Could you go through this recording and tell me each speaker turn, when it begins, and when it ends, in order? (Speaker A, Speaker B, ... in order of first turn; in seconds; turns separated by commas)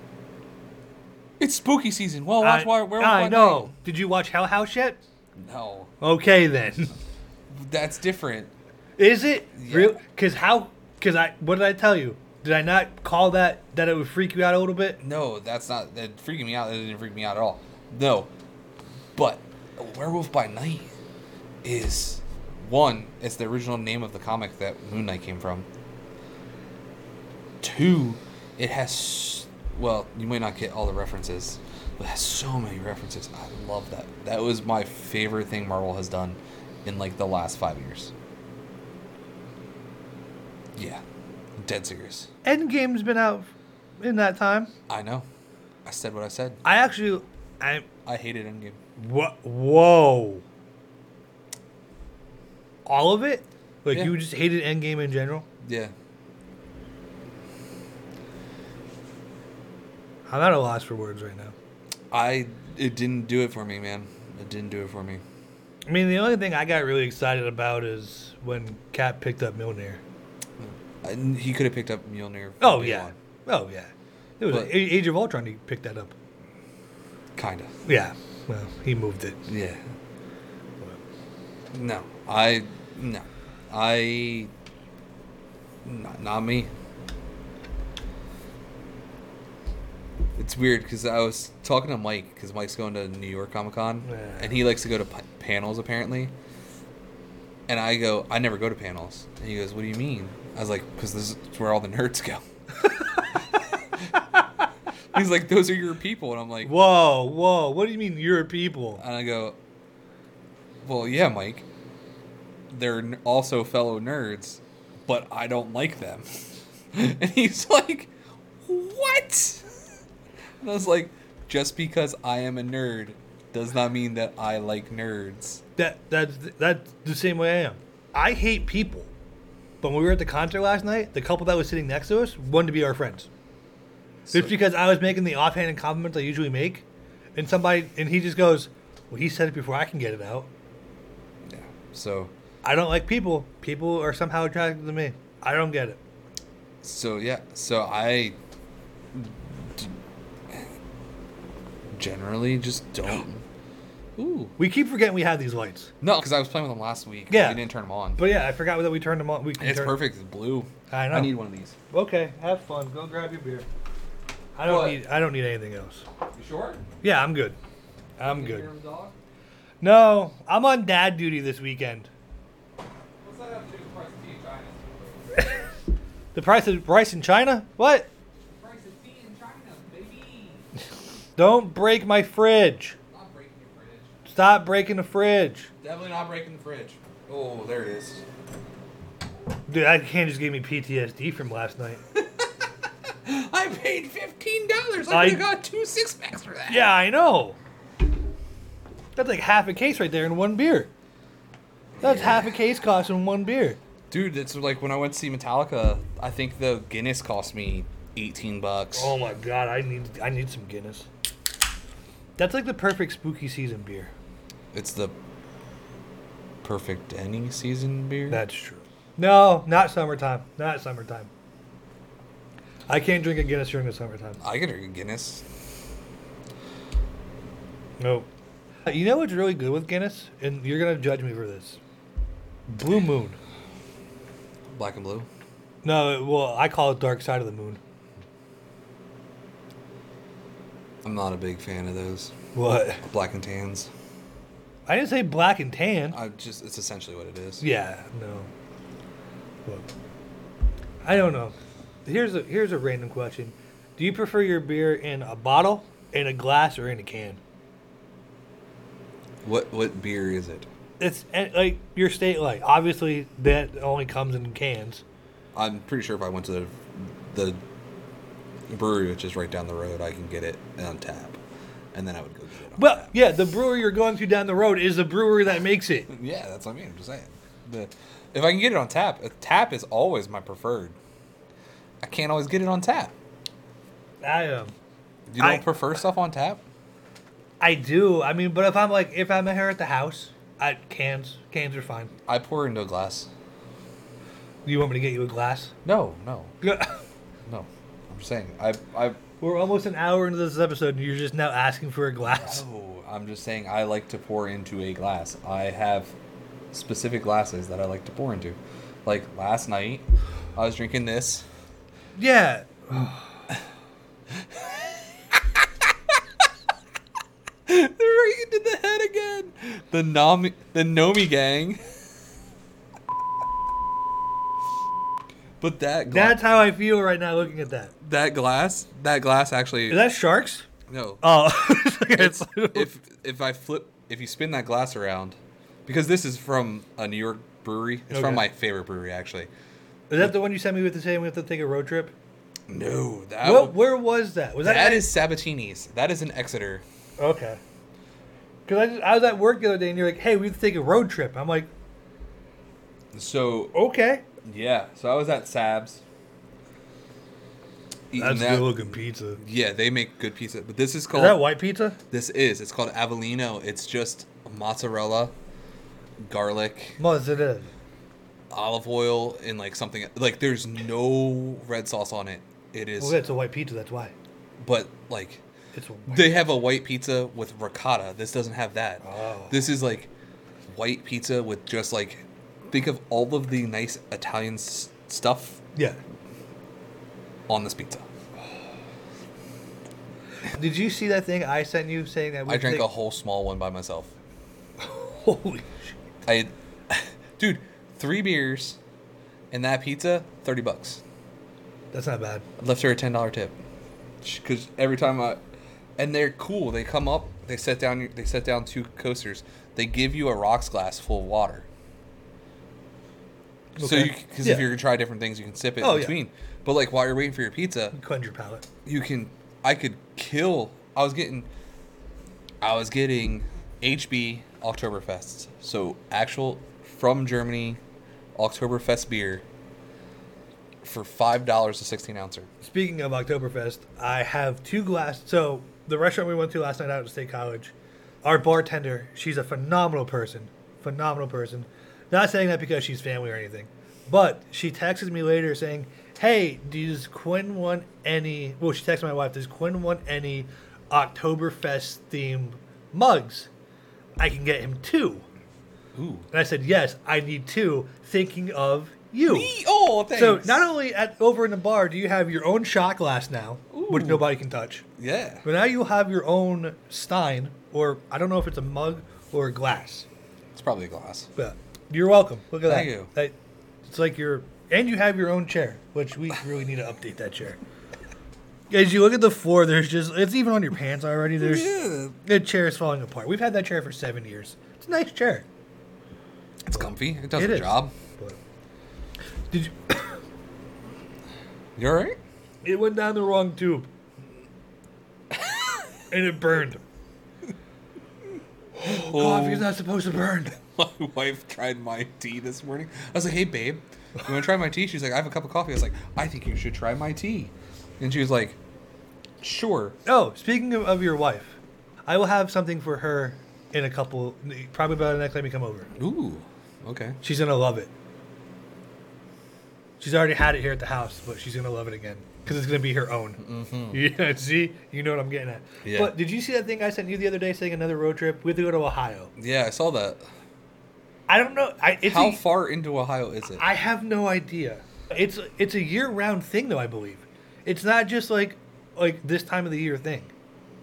Speaker A: 1.4-3.7, Speaker B: 2.4-5.0, Speaker A: 5.4-5.9, Speaker B: 6.0-6.9, Speaker A: 7.5-8.5, Speaker B: 9.0-15.0, Speaker A: 9.6-10.0, Speaker A: 15.0-18.3, Speaker A: 19.1-20.9, Speaker A: 21.6-25.7, Speaker A: 27.6-38.1, Speaker A: 40.7-41.0, Speaker A: 41.6-42.3, Speaker B: 42.4-44.7, Speaker A: 44.9-45.3, Speaker A: 45.8-46.6, Speaker B: 46.6-47.9, Speaker A: 48.0-48.8, Speaker B: 49.0-50.4, Speaker B: 52.9-55.5, Speaker A: 55.6-55.9, Speaker B: 60.3-61.5, Speaker A: 62.1-65.2, Speaker B: 65.9-70.0, Speaker A: 70.6-73.1, Speaker B: 72.6-76.1, Speaker A: 74.5-74.8, Speaker A: 77.3-77.7, Speaker B: 77.8-79.5, Speaker A: 79.5-79.8, Speaker A: 81.7-84.5, Speaker A: 85.8-86.7, Speaker A: 90.3-96.3, Speaker B: 94.0-94.6, Speaker A: 97.7-102.4, Speaker A: 105.1-106.7, Speaker B: 106.6-109.0, Speaker A: 109.0-109.6, Speaker A: 110.8-111.6, Speaker A: 112.7-116.3, Speaker A: 116.9-118.1, Speaker A: 118.6-119.7, Speaker A: 120.6-125.6, Speaker B: 125.8-129.1, Speaker B: 129.8-133.3, Speaker A: 134.2-134.5, Speaker B: 134.3-136.8, Speaker B: 137.3-140.5, Speaker A: 141.5-142.3, Speaker B: 142.6-146.0, Speaker A: 146.8-148.4, Speaker A: 149.1-149.9, Speaker A: 151.9-153.4, Speaker A: 154.2-154.6, Speaker B: 154.6-155.9, Speaker A: 156.0-158.3, Speaker B: 157.3-157.6, Speaker B: 158.2-160.0, Speaker A: 159.6-161.8, Speaker B: 160.9-161.4, Speaker B: 161.9-163.7, Speaker B: 164.6-166.1, Speaker A: 164.6-165.0, Speaker A: 166.3-166.8, Speaker B: 167.0-167.6, Speaker B: 168.2-168.7, Speaker A: 168.2-169.1, Speaker B: 169.8-172.1, Speaker A: 173.2-175.5, Speaker B: 176.3-178.1, Speaker A: 178.5-180.7, Speaker B: 181.4-182.9, Speaker A: 183.1-184.2, Speaker B: 184.3-185.7, Speaker A: 185.8-188.2, Speaker B: 189.7-192.0, Speaker A: 192.1-196.9, Speaker B: 195.1-195.4, Speaker B: 196.7-197.6, Speaker B: 199.2-200.9, Speaker A: 202.0-202.5, Speaker B: 202.0-203.8, Speaker A: 204.1-209.1, Speaker B: 208.9-211.1, Speaker B: 212.4-214.1, Speaker A: 214.7-215.1, Speaker A: 216.6-218.4, Speaker B: 218.3-221.3, Speaker B: 222.9-224.4, Speaker A: 224.4-225.4, Speaker B: 228.0-228.3, Speaker B: 228.8-231.8, Speaker B: 232.7-233.4, Speaker A: 234.7-235.3, Speaker B: 235.8-237.8, Speaker A: 241.0-242.3, Speaker B: 242.5-243.0, Speaker A: 243.0-243.9, Speaker B: 244.9-246.2, Speaker A: 246.1-247.6, Speaker B: 247.6-248.5, Speaker B: 251.0-257.4, Speaker A: 259.4-260.7, Speaker B: 261.0-265.0, Speaker A: 265.5-267.6, Speaker A: 268.7-271.4, Speaker A: 271.9-273.1, Speaker B: 272.8-276.1, Speaker A: 276.1-280.9, Speaker A: 282.0-283.1, Speaker B: 284.2-284.7, Speaker A: 285.3-286.6, Speaker B: 285.4-285.6, Speaker B: 287.6-292.1, Speaker A: 292.3-293.3, Speaker B: 294.6-295.7, Speaker A: 295.8-296.5, Speaker B: 296.6-297.0, Speaker A: 297.4-299.2, Speaker B: 299.4-302.6, Speaker A: 302.4-306.1, Speaker A: 306.7-311.4, Speaker B: 312.1-313.3, Speaker A: 314.3-316.2, Speaker A: 317.6-321.9, Speaker A: 325.6-326.4, Speaker B: 326.1-327.9, Speaker A: 328.0-330.0, Speaker B: 329.9-330.7, Speaker A: 330.9-339.5, Speaker B: 331.2-332.9, Speaker B: 338.1-338.4, Speaker B: 340.1-342.1, Speaker A: 342.7-343.8, Speaker B: 343.4-345.1, Speaker A: 344.6-346.8, Speaker B: 347.2-347.6, Speaker B: 348.7-351.7, Speaker A: 353.1-353.7, Speaker B: 353.7-354.2, Speaker A: 354.4-356.0, Speaker A: 358.1-361.5, Speaker B: 358.2-359.4, Speaker B: 361.1-362.0, Speaker A: 362.1-365.3, Speaker A: 366.2-367.0, Speaker B: 367.0-367.7, Speaker A: 368.5-373.2, Speaker B: 373.0-374.1, Speaker A: 374.6-375.4, Speaker B: 375.7-376.5, Speaker A: 376.1-380.1, Speaker B: 379.0-379.6, Speaker A: 380.7-385.6, Speaker A: 387.5-388.1, Speaker B: 390.5-392.9, Speaker A: 392.5-394.1, Speaker B: 394.8-395.9, Speaker A: 396.2-398.8, Speaker A: 399.5-401.0, Speaker B: 401.9-402.4, Speaker A: 402.6-403.6, Speaker A: 404.2-405.4, Speaker A: 406.0-411.6, Speaker B: 413.8-414.7, Speaker A: 413.8-417.9, Speaker B: 415.8-416.1, Speaker B: 417.9-418.6, Speaker A: 418.8-421.5, Speaker A: 422.6-427.8, Speaker A: 428.4-429.4, Speaker A: 430.8-432.5, Speaker B: 432.6-437.7, Speaker B: 438.2-453.5, Speaker B: 454.2-455.2, Speaker A: 455.9-456.3, Speaker B: 456.3-459.5, Speaker A: 459.2-460.7, Speaker B: 460.1-464.9, Speaker A: 463.7-464.3, Speaker A: 465.0-465.4, Speaker B: 465.4-470.1, Speaker A: 470.5-471.3, Speaker B: 471.4-473.3, Speaker A: 472.6-473.1, Speaker B: 473.8-477.6, Speaker B: 478.7-481.7, Speaker A: 481.4-482.2, Speaker B: 482.2-485.4, Speaker A: 486.7-487.9, Speaker B: 486.7-488.4, Speaker B: 489.5-490.2, Speaker A: 491.8-492.2, Speaker B: 492.6-493.9, Speaker A: 495.3-495.8, Speaker B: 496.1-496.8, Speaker B: 498.8-500.6, Speaker A: 498.8-499.7, Speaker A: 500.5-508.6, Speaker A: 509.4-510.0, Speaker B: 510.1-515.9, Speaker A: 516.0-517.2, Speaker B: 517.2-517.9, Speaker B: 520.0-529.3, Speaker A: 523.4-524.0, Speaker A: 525.8-526.1, Speaker A: 529.4-530.2, Speaker B: 531.3-532.4, Speaker A: 532.0-533.6, Speaker B: 533.6-540.3